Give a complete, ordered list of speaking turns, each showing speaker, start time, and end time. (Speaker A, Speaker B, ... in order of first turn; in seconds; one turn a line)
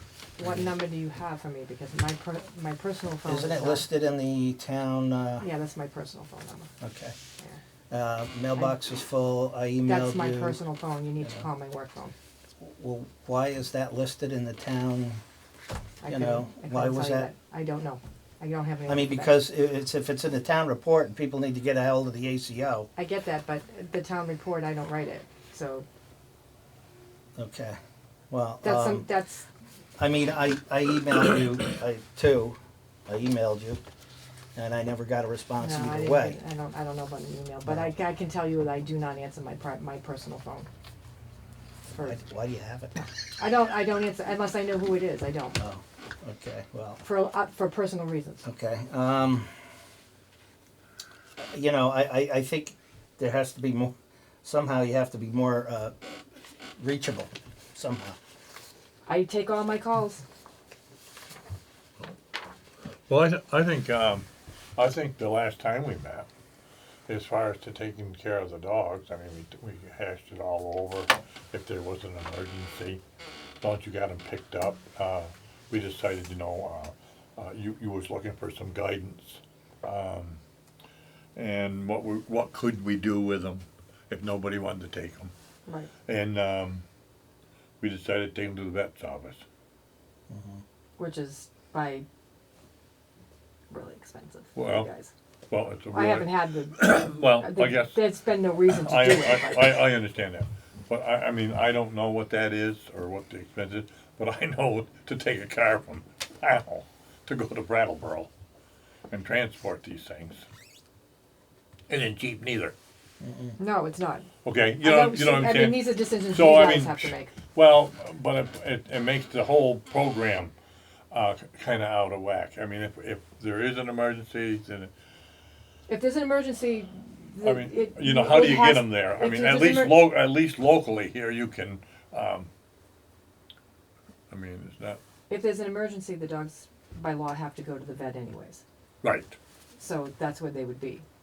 Speaker A: 0.4-3.9
Speaker B: 0.4-0.7
Speaker B: 3.3-5.5
Speaker A: 5.4-6.7
Speaker B: 6.8-7.2
Speaker B: 7.9-10.6
Speaker A: 9.8-12.2
Speaker B: 12.6-15.2
Speaker A: 16.0-19.4
Speaker B: 16.1-17.3
Speaker B: 18.9-22.9
Speaker A: 23.0-25.9
Speaker B: 27.4-27.8
Speaker B: 28.3-29.1
Speaker A: 28.6-29.5
Speaker B: 30.0-33.8
Speaker B: 34.5-36.4
Speaker A: 35.6-40.7
Speaker B: 37.7-37.9
Speaker A: 41.9-42.2
Speaker B: 42.0-43.0
Speaker A: 43.4-45.6
Speaker B: 45.6-47.0
Speaker A: 47.0-48.4
Speaker B: 48.4-49.5
Speaker B: 51.4-53.9
Speaker B: 54.4-56.1
Speaker B: 56.8-58.2
Speaker A: 59.1-60.2
Speaker C: 63.1-66.3
Speaker C: 67.1-73.0
Speaker C: 73.6-80.4
Speaker C: 81.4-85.3
Speaker A: 85.7-85.9
Speaker C: 86.1-86.8
Speaker C: 87.8-89.4
Speaker B: 90.3-90.6
Speaker A: 91.0-92.1
Speaker A: 93.7-95.1
Speaker C: 94.6-94.9
Speaker C: 95.5-98.1
Speaker A: 95.9-99.8
Speaker C: 98.7-108.3
Speaker C: 109.1-110.5
Speaker C: 111.9-112.7
Speaker B: 113.2-113.6
Speaker A: 113.6-114.3
Speaker C: 114.4-120.5
Speaker A: 114.8-117.3
Speaker C: 121.1-124.9
Speaker A: 125.9-130.1
Speaker C: 127.4-132.5
Speaker C: 134.3-135.0
Speaker A: 135.3-138.6
Speaker C: 139.0-139.4
Speaker A: 139.8-141.1